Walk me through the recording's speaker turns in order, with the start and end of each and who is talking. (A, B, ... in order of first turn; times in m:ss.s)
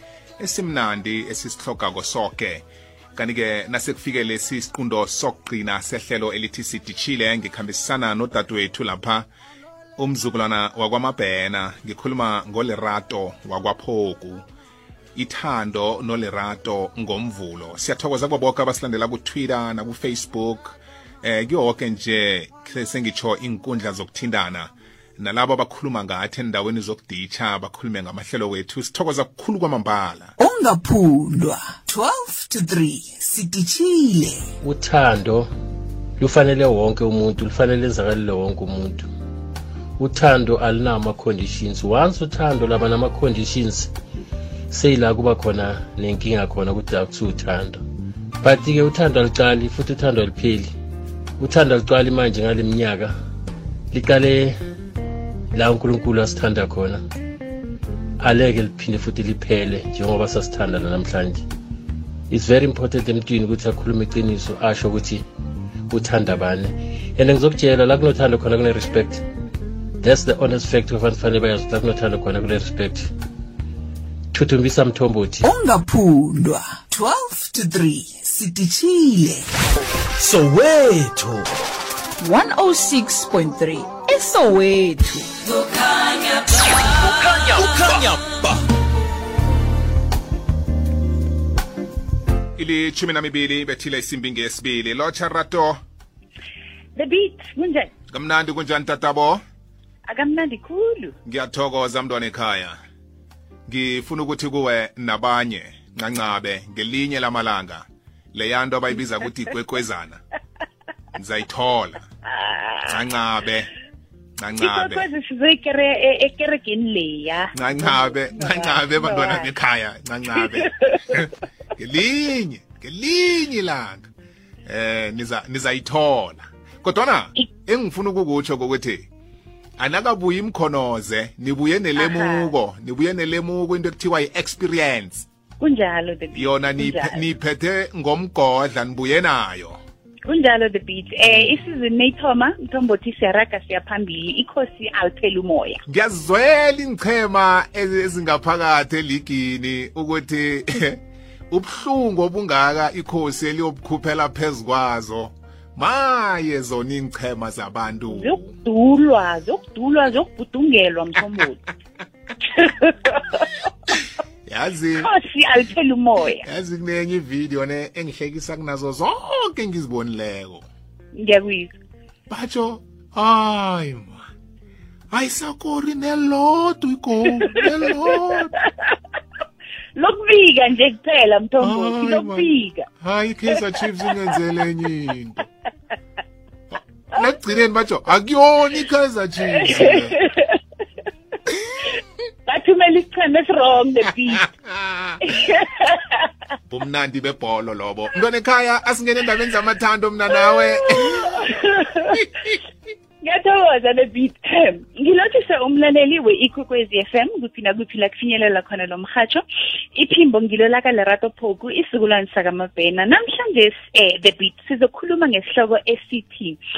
0:00.4-0:02.6 A
0:03.2-0:09.3 A
0:10.0-0:14.4 A
0:15.2-0:30.3 A
0:30.4-0:34.5 B
0:34.6-0:35.5 C
0:36.2-0:39.1 C
0:40.0-0:43.9 C
0:44.7-0:47.8 C
0:48.4-0:50.7 C
0:51.4-0:53.1 C
0:53.9-0:54.5 C
0:55.5-0:57.0 C
0:58.2-1:01.4 C
1:02.3-1:05.2 C
1:05.9-1:09.2 C
1:10.0-1:13.1 C
1:14.3-1:15.4 C
1:15.4-1:19.5 B
1:22.2-1:25.3 D
1:27.0-1:27.4 D
1:32.6-1:35.8 A
1:36.9-1:37.9 E
1:38.1-1:39.4 A
1:40.0-1:41.2 E
1:41.2-1:42.8 A
1:43.7-1:50.2 A
1:51.2-1:52.0 A
1:52.2-1:52.9 E
1:52.9-1:53.7 A
1:54.4-1:55.0 A
1:54.6-1:59.5 E
1:57.5-2:04.1 A
2:00.3-2:01.3 E
2:04.6-2:09.0 A
2:09.8-2:15.2 A
2:12.0-2:12.5 E
2:15.6-2:17.2 E
2:16.3-2:19.8 A
2:20.2-2:25.8 E
2:21.2-2:21.6 A
2:25.9-2:38.5 A
2:38.1-2:41.7 E
2:42.4-2:43.5 E
2:44.4-2:45.1 A
2:45.0-2:46.4 E
2:46.3-2:50.6 A
2:51.2-2:51.8 E
2:52.3-2:54.2 A
2:55.1-2:58.5 A
2:57.2-2:58.9 E
2:59.9-3:02.9 E
3:01.6-3:05.4 A
3:03.5-3:04.3 E
3:07.1-3:10.2 A
3:09.5-3:10.6 E
3:11.5-3:11.9 A
3:12.4-3:14.4 E
3:14.3-3:15.3 A
3:15.2-3:16.3 E
3:16.7-3:21.5 A
3:20.3-3:22.3 E
3:22.1-3:22.6 A
3:23.2-3:36.6 E